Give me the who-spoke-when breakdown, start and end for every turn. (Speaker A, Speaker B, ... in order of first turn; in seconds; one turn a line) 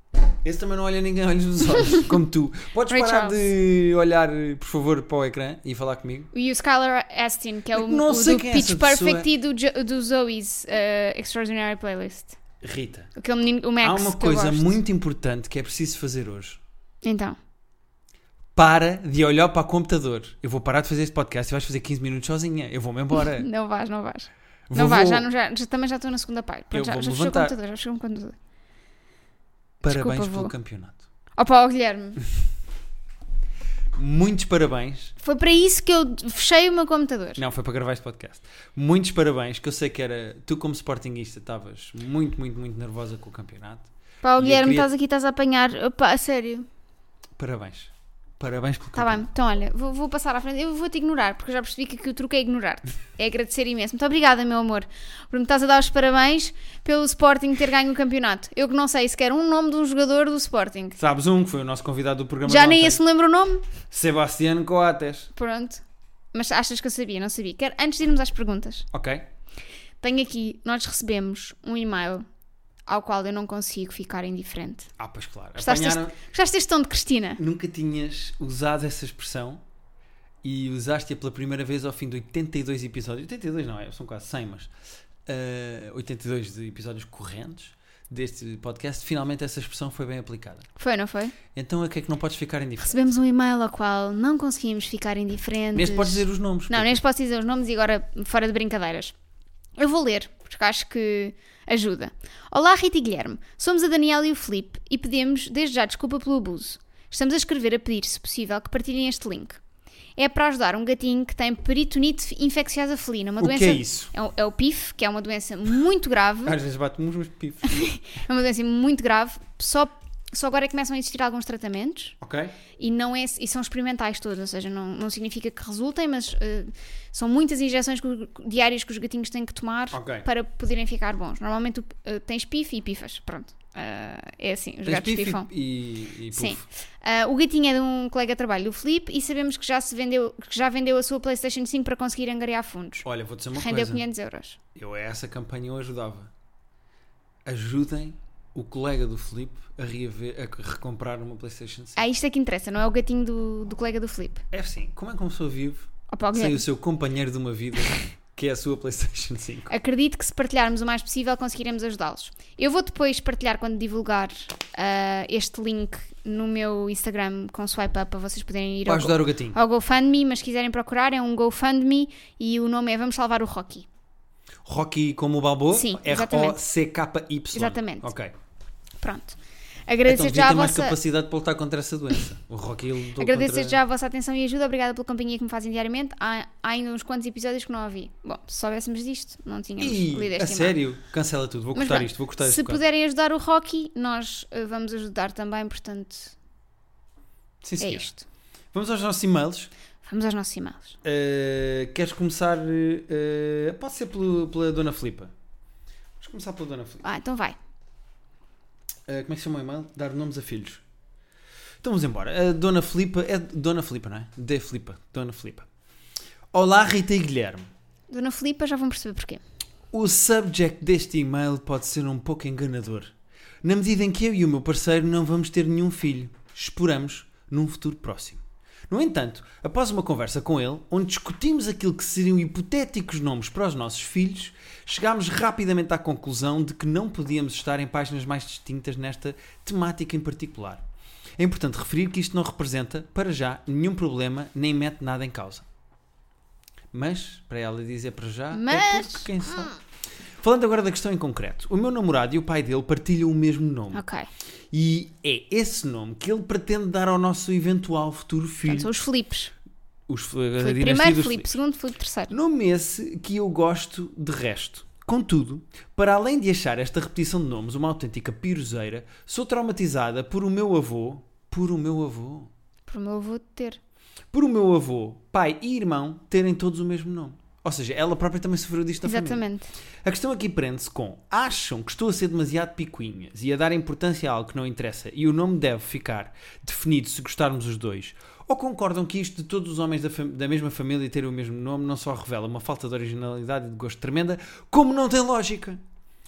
Speaker A: 0.4-6.3
Speaker B: 2.9-3.4
Speaker B: 6.3-12.4
Speaker A: 7.7-9.3
Speaker A: 12.6-13.1
Speaker B: 13.2-14.8
Speaker A: 13.8-16.6
Speaker B: 17.0-17.4
Speaker A: 18.6-23.5
Speaker B: 23.1-28.4
Speaker A: 24.7-25.3
Speaker A: 26.7-27.6
Speaker B: 29.8-30.5
Speaker A: 29.8-31.0
Speaker B: 31.4-32.2
Speaker A: 34.0-35.1
Speaker B: 35.2-37.4
Speaker A: 37.4-44.9
Speaker B: 44.2-46.7
Speaker A: 47.4-49.3
Speaker B: 49.0-61.0
Speaker A: 61.0-63.0
Speaker B: 62.5-63.7
Speaker A: 63.9-65.3
Speaker B: 65.3-65.8
Speaker B: 66.3-68.9
Speaker A: 68.9-69.3
Speaker B: 70.0-72.2
Speaker B: 72.9-74.9
Speaker A: 75.0-76.2
Speaker B: 75.6-77.4
Speaker A: 77.4-79.6
Speaker A: 80.4-84.7
Speaker A: 85.3-90.7
Speaker B: 90.8-91.4
Speaker A: 91.5-93.0
Speaker B: 92.8-99.2
Speaker A: 95.7-97.0
Speaker B: 99.8-109.6
Speaker B: 110.2-116.6
Speaker A: 113.4-114.1
Speaker A: 116.5-117.8
Speaker B: 117.6-122.2
Speaker A: 122.2-122.5
Speaker B: 122.8-135.5
Speaker A: 129.9-130.3
Speaker A: 134.8-136.6
Speaker B: 136.3-144.6
Speaker A: 143.0-144.0
Speaker A: 144.8-146.3
Speaker A: 147.4-152.0
Speaker B: 152.0-154.4
Speaker A: 154.5-159.7
Speaker B: 156.1-156.6
Speaker B: 159.7-173.9
Speaker A: 168.9-169.6
Speaker A: 174.7-178.3
Speaker B: 175.7-176.6
Speaker B: 177.5-178.1
Speaker B: 179.0-181.0
Speaker A: 180.1-183.8
Speaker B: 183.2-190.8
Speaker A: 189.8-192.8
Speaker B: 191.8-196.4
Speaker A: 197.6-198.1
Speaker B: 197.8-198.2
Speaker A: 198.7-199.7
Speaker B: 200.0-201.0
Speaker A: 201.0-205.3
Speaker A: 206.2-207.1
Speaker B: 207.0-207.6
Speaker A: 209.1-210.8
Speaker A: 211.8-215.7
Speaker A: 216.5-217.7
Speaker B: 218.1-219.4
Speaker A: 219.9-223.1
Speaker A: 223.6-240.8
Speaker A: 241.4-245.7
Speaker A: 246.9-249.7
Speaker B: 248.5-249.8
Speaker A: 250.4-254.0
Speaker B: 253.9-254.3
Speaker A: 254.7-258.9
Speaker B: 258.7-259.5
Speaker A: 260.1-261.5
Speaker B: 260.6-262.3
Speaker A: 262.3-272.5
Speaker B: 272.9-273.8
Speaker A: 274.3-279.5
Speaker B: 279.0-279.7
Speaker A: 280.0-295.8